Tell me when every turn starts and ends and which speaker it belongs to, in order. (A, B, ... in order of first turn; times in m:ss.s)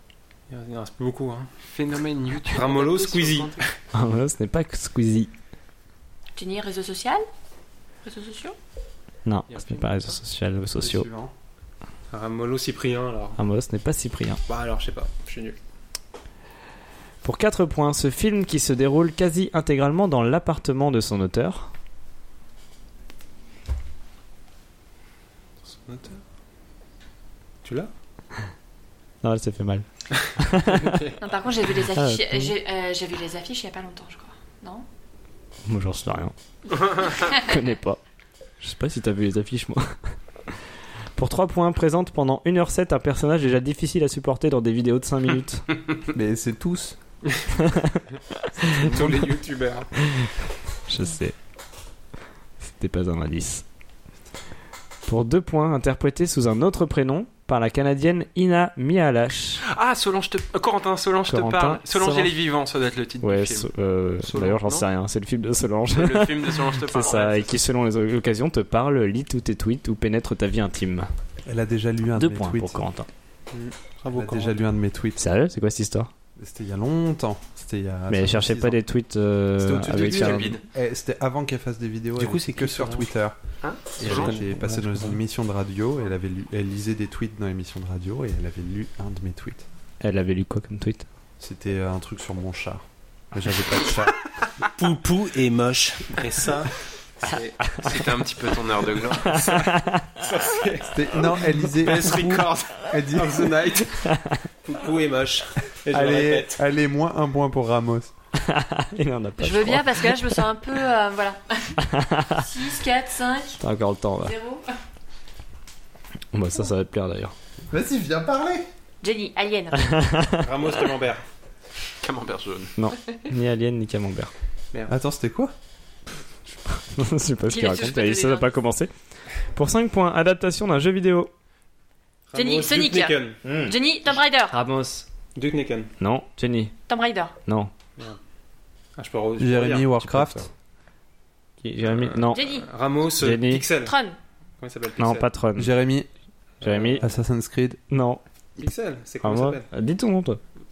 0:00.5-0:01.5 A
0:01.7-0:03.6 B
0:02.5-0:03.7 A
0:03.9-0:05.3 C
0:06.4-0:07.2 D
0:08.0-0:08.6 D
0:09.2-0:11.1 C
0:09.5-0:10.1 B
0:10.8-0:11.3 E
0:12.1-0:13.4 A
0:13.4-0:14.4 C
0:14.5-0:15.6 A
0:17.2-0:21.7 C
0:25.7-0:26.2 A
0:27.6-0:27.9 A
0:29.2-0:31.0 C
0:30.6-0:31.2 A
0:31.2-0:34.8 D
0:31.9-0:32.5 C
0:35.7-0:36.3 C
0:36.8-0:37.4 D
0:37.1-0:38.0 C
0:38.6-0:40.0 C
0:41.2-0:45.7 C
0:46.1-0:47.0 E
0:47.6-0:48.0 C
0:48.6-0:49.9 A
0:48.6-0:49.1 C
0:50.9-0:51.4 C
0:52.7-0:53.6 C
0:55.1-0:59.6 C
0:59.7-1:03.7 B
1:01.3-1:02.3 C
1:03.2-1:11.1 C
1:04.3-1:04.9 B
1:05.9-1:07.6 B
1:11.5-1:12.8 E
1:12.2-1:13.1 C
1:13.5-1:14.6 A
1:14.1-1:15.2 E
1:15.2-1:16.1 C
1:16.4-1:18.8 E
1:18.1-1:20.5 C
1:19.6-1:23.4 E
1:19.9-1:20.6 B
1:22.2-1:23.0 A
1:23.6-1:24.4 B
1:24.0-1:29.6 E
1:24.1-1:25.0 A
1:30.0-1:31.1 C
1:31.4-1:34.2 E
1:34.8-1:38.0 A
1:37.8-1:39.4 B
1:39.0-1:44.0 A
1:39.4-1:40.1 C
1:40.9-1:43.5 E
1:44.0-1:44.4 C
1:44.6-1:46.6 A
1:45.9-1:48.1 E
1:48.4-1:50.4 C
1:49.4-1:51.8 D
1:51.8-1:52.5 C
1:52.4-1:53.6 D
1:53.6-1:54.4 C
1:54.2-1:54.6 D
1:56.3-1:57.3 C
1:57.7-1:58.7 E
1:59.0-1:59.9 D
1:59.8-2:00.4 C
2:00.4-2:01.2 A
2:02.0-2:02.7 B
2:02.8-2:04.3 C
2:04.9-2:05.5 E
2:06.9-2:08.9 C
2:07.5-2:08.5 D
2:09.5-2:11.3 C
2:12.3-2:13.4 A
2:12.4-2:14.6 D
2:13.4-2:13.8 C
2:14.5-2:15.1 C
2:15.4-2:15.9 A
2:16.0-2:16.8 C
2:16.9-2:17.3 D
2:17.5-2:17.7 C
2:19.0-2:19.9 A
2:19.4-2:20.5 E
2:20.0-2:20.5 C
2:21.6-2:22.4 C
2:22.3-2:22.7 D
2:22.4-2:24.0 A
2:23.2-2:23.7 C
2:23.8-2:24.2 D
2:24.6-2:25.3 A
2:25.0-2:25.8 C
2:25.6-2:26.1 E
2:26.6-2:27.0 C
2:26.6-2:27.1 A
2:27.0-2:27.8 E
2:27.9-2:28.2 C
2:28.6-2:29.7 A
2:29.2-2:30.4 C